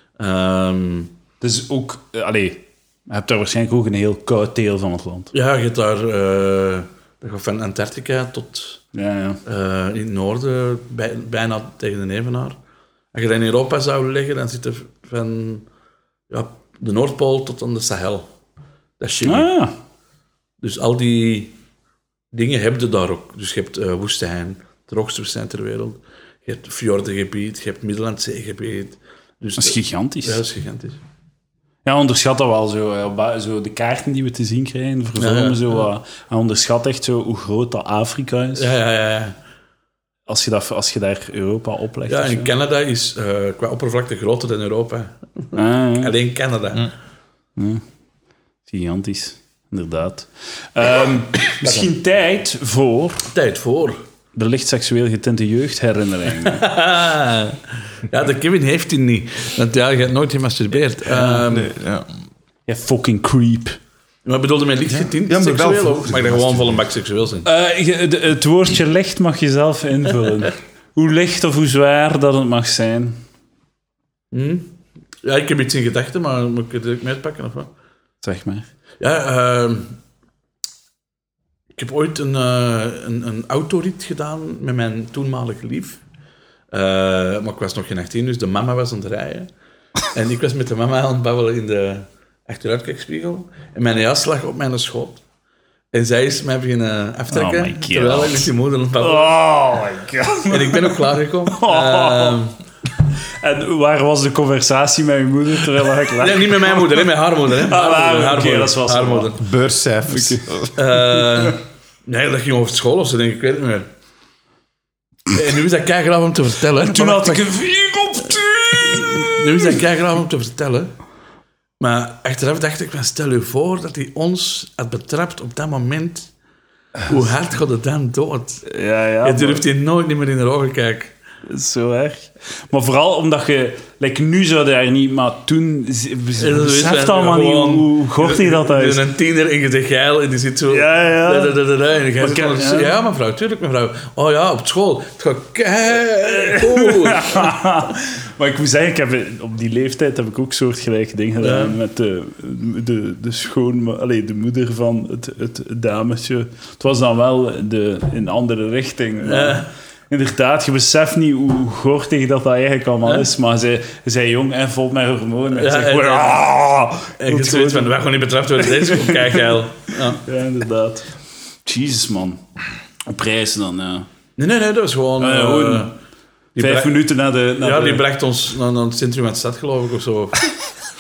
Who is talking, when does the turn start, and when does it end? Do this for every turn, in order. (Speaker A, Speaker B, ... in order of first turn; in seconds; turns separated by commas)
Speaker A: 0.2-1.1, Speaker B: 1.4-5.3, Speaker A: 5.3-8.8, Speaker B: 8.9-9.4, Speaker A: 9.5-12.6, Speaker A: 13.1-15.7, Speaker A: 16.3-18.3, Speaker A: 19.0-19.5, Speaker B: 19.2-19.7, Speaker A: 20.6-21.6, Speaker A: 22.3-31.0, Speaker B: 29.6-30.4, Speaker B: 31.9-38.7, Speaker A: 35.2-35.9, Speaker A: 38.6-39.4, Speaker B: 40.3-42.5, Speaker A: 42.1-46.9, Speaker B: 45.5-46.1, Speaker B: 47.6-47.8, Speaker B: 48.7-53.3, Speaker A: 51.6-51.9, Speaker A: 53.3-54.0, Speaker B: 54.3-56.6, Speaker A: 56.4-61.7, Speaker B: 61.1-61.5, Speaker C: 61.5-62.1, Speaker B: 62.7-63.8, Speaker A: 64.2-67.5, Speaker C: 64.9-66.8, Speaker B: 67.5-73.2, Speaker A: 74.3-77.7, Speaker B: 78.2-78.7, Speaker A: 79.0-80.0, Speaker A: 81.8-86.0, Speaker A: 86.7-89.5, Speaker A: 90.1-95.2, Speaker A: 95.9-99.4, Speaker B: 97.3-102.4, Speaker A: 100.5-102.5, Speaker B: 103.4-109.3, Speaker A: 106.2-109.4, Speaker C: 109.4-110.7, Speaker B: 110.1-110.6, Speaker A: 110.8-113.9, Speaker A: 115.3-117.5, Speaker B: 116.8-119.8, Speaker A: 118.8-120.9, Speaker A: 121.8-126.3, Speaker A: 127.1-128.7, Speaker B: 128.7-129.7, Speaker A: 129.2-131.1, Speaker B: 131.5-139.0, Speaker A: 136.4-147.5, Speaker B: 140.7-141.6, Speaker B: 142.2-142.9, Speaker B: 146.2-167.9, Speaker A: 151.4-151.8, Speaker A: 159.2-159.7, Speaker A: 165.6-166.5, Speaker A: 167.2-170.2, Speaker B: 168.8-169.4, Speaker B: 170.1-171.1, Speaker B: 171.7-172.4, Speaker B: 173.1-174.1, Speaker A: 174.4-175.9, Speaker B: 175.2-175.9, Speaker A: 176.6-177.0, Speaker B: 176.6-178.1, Speaker A: 177.6-180.5